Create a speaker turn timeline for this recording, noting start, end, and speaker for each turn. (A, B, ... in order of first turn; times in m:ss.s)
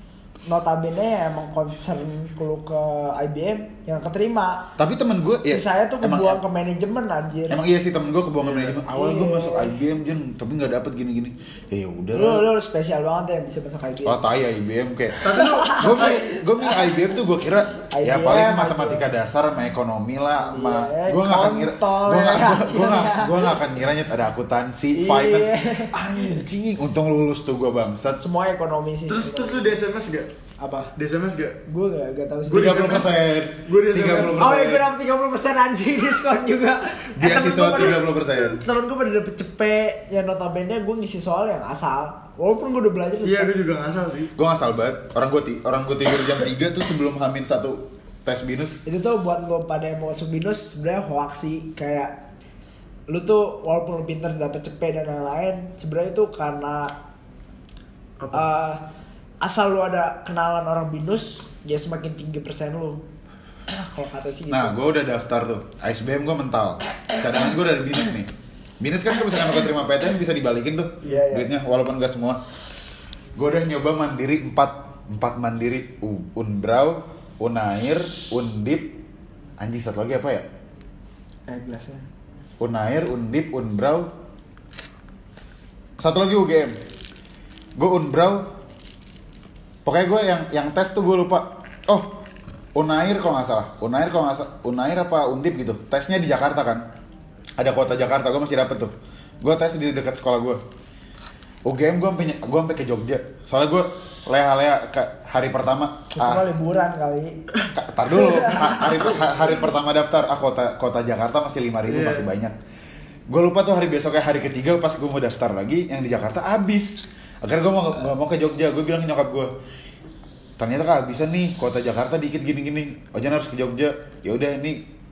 0:00.5-0:04.7 A
0:04.8-0:06.4 B
0:05.4-0:07.6 A
0:07.5-0:12.4 B
0:08.4-0:08.8 C
0:08.9-0:09.7 A
0:12.1-0:14.2 A
0:14.0-0:28.2 B
0:15.2-0:16.3 C
0:15.3-0:16.9 A
0:17.9-0:19.0 A
0:20.4-0:23.6 A
0:24.9-0:26.4 A
0:28.2-0:29.7 A
0:29.1-0:30.3 C
0:30.6-0:30.9 A
0:31.0-0:31.6 C
0:31.6-0:33.1 A
0:32.5-0:34.6 C
0:32.5-0:34.8 B
0:34.3-0:43.6 A
0:37.2-0:38.6 B
0:43.2-0:44.3 C
0:44.4-0:48.8 B
0:48.8-0:52.1 A
0:53.1-0:56.9 A
0:58.2-0:58.4 C
0:58.3-0:58.8 A
0:59.4-1:03.0 A
1:03.7-1:04.8 A
1:04.5-1:08.3 B
1:08.8-1:12.4 B
1:11.0-1:11.5 A
1:13.4-1:19.0 B
1:19.6-1:20.4 B
1:21.5-1:22.1 A
1:22.6-1:24.1 B
1:26.0-1:26.8 B
1:27.8-1:28.5 B
1:29.8-1:32.2 B
1:32.7-1:36.8 B
1:37.6-1:40.6 B
1:41.6-1:46.5 B
1:46.1-1:47.4 A
1:47.7-1:52.6 B
1:48.1-1:49.2 A
1:48.6-1:49.2 C
1:51.9-1:52.3 C
1:53.3-1:59.5 B
2:00.6-2:04.9 B